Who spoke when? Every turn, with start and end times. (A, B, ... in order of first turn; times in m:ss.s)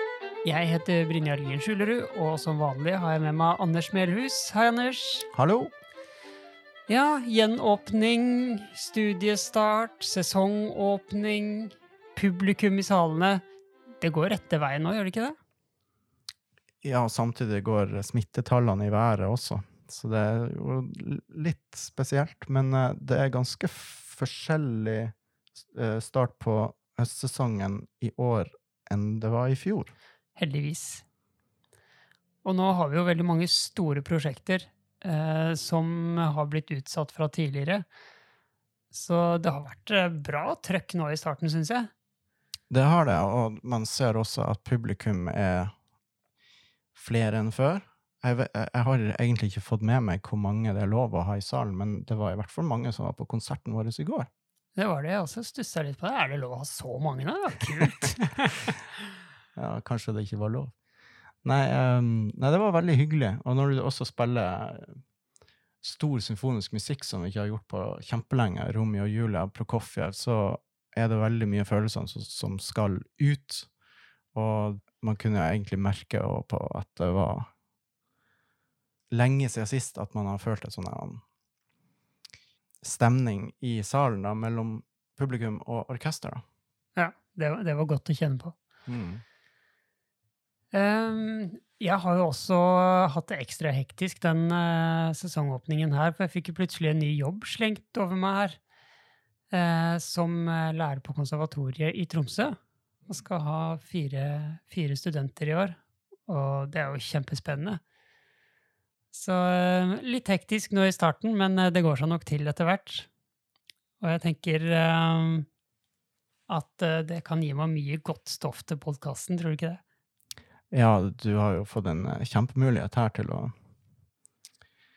0:00.4-0:05.3 A
0:05.3-0:05.7 B
0:06.9-0:13.4 A
0:14.0-0:15.4 A
0:16.8-0:25.2 B
0:25.7-0:29.9 B
0:30.4-0:31.0 A
0:32.4-0:37.9 A
0:38.9-0:41.9 A
0:42.7-0:45.7 B
0:47.0-0:54.3 B
0:54.8-0:58.6 A
0:59.6-1:00.8 B
1:01.4-1:05.0 B
1:05.8-1:13.7 B
1:14.3-1:17.5 B
1:19.1-1:21.2 B
1:22.8-1:26.4 B
1:27.0-1:28.6 A
1:28.9-1:29.2 B
1:30.7-1:38.6 A
1:39.5-1:47.8 A
1:49.1-1:53.1 A
1:54.0-1:55.5 A
1:56.5-1:59.8 A
2:00.7-2:03.5 B